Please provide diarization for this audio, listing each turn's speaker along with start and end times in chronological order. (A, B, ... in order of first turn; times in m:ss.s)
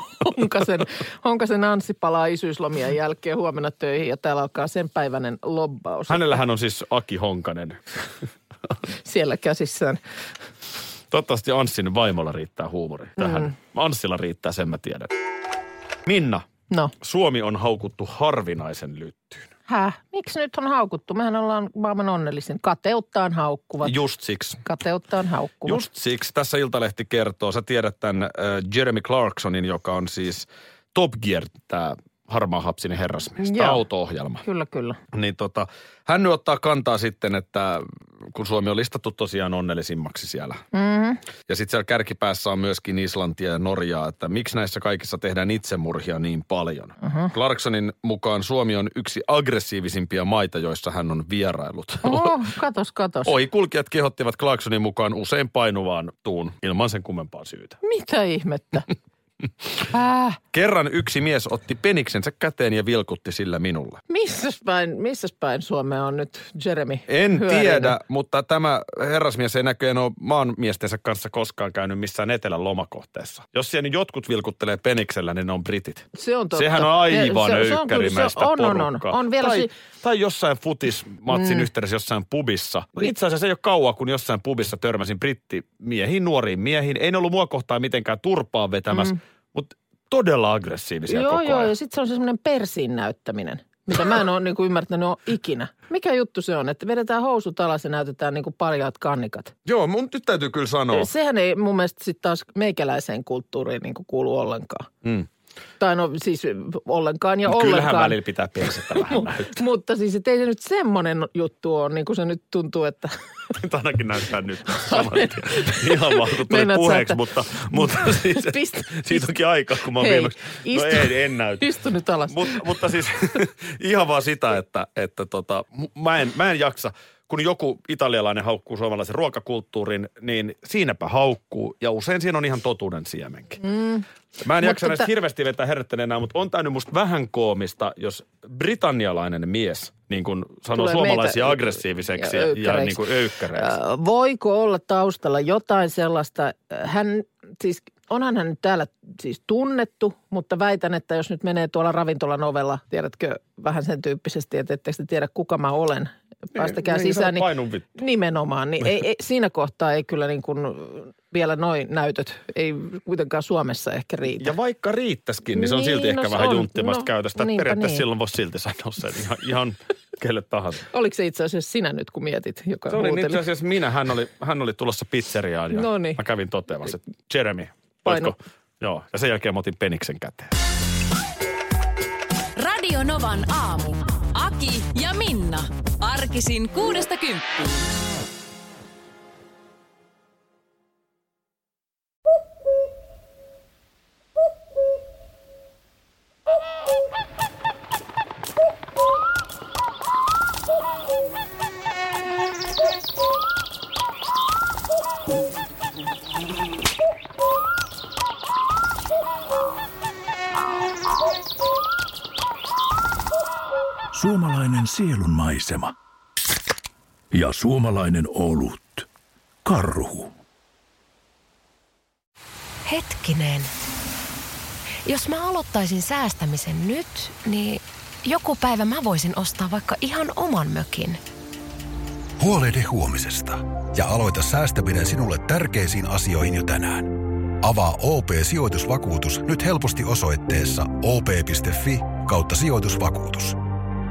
0:00.1-0:06.4 A
0:06.1-0:07.8 B
0:08.9-0:10.0 A
0:11.1-0:15.1 B
0:13.2-0:13.5 A
0:16.0-0:16.4 B
0:17.0-0:19.5 B
0:19.7-0:24.0 A
0:23.8-0:24.6 B
0:24.6-0:25.8 A
0:25.6-0:34.4 B
0:33.4-0:33.8 A
0:34.4-0:35.0 A
0:35.1-0:40.6 B
0:40.7-0:41.2 A
0:41.5-0:52.4 B
0:47.0-0:47.3 A
0:52.0-0:53.3 A
0:53.2-0:57.8 B
0:57.8-0:58.9 A
0:59.9-1:00.4 A
1:00.5-1:04.0 B
1:04.1-1:07.9 A
1:07.1-1:31.7 B
1:16.1-1:19.7 A
1:21.3-1:21.7 A
1:31.1-1:39.5 A
1:39.6-1:41.1 B
1:40.9-1:44.9 A
1:45.8-1:48.2 A
1:47.5-1:49.6 B
1:49.1-1:53.1 A
1:53.6-2:01.7 B
1:54.8-1:57.2 A
1:57.7-1:59.3 A
1:59.9-2:02.8 A
2:02.3-2:13.6 B
2:13.6-2:14.1 A
2:14.4-2:23.7 B
2:14.6-2:15.1 A
2:20.7-2:23.0 A
2:23.6-2:44.5 A
2:36.6-2:37.9 B
2:44.4-2:50.8 B
2:45.5-2:48.0 A
2:50.9-2:53.4 A
2:52.9-3:00.5 B
2:55.7-2:56.2 A
2:58.1-2:58.3 A
3:02.6-3:07.9 C
3:34.1-3:35.9 D
3:37.3-3:39.1 D
3:39.6-3:40.3 D
3:42.8-3:43.7 E
3:45.0-3:51.2 E
3:52.4-4:03.6 F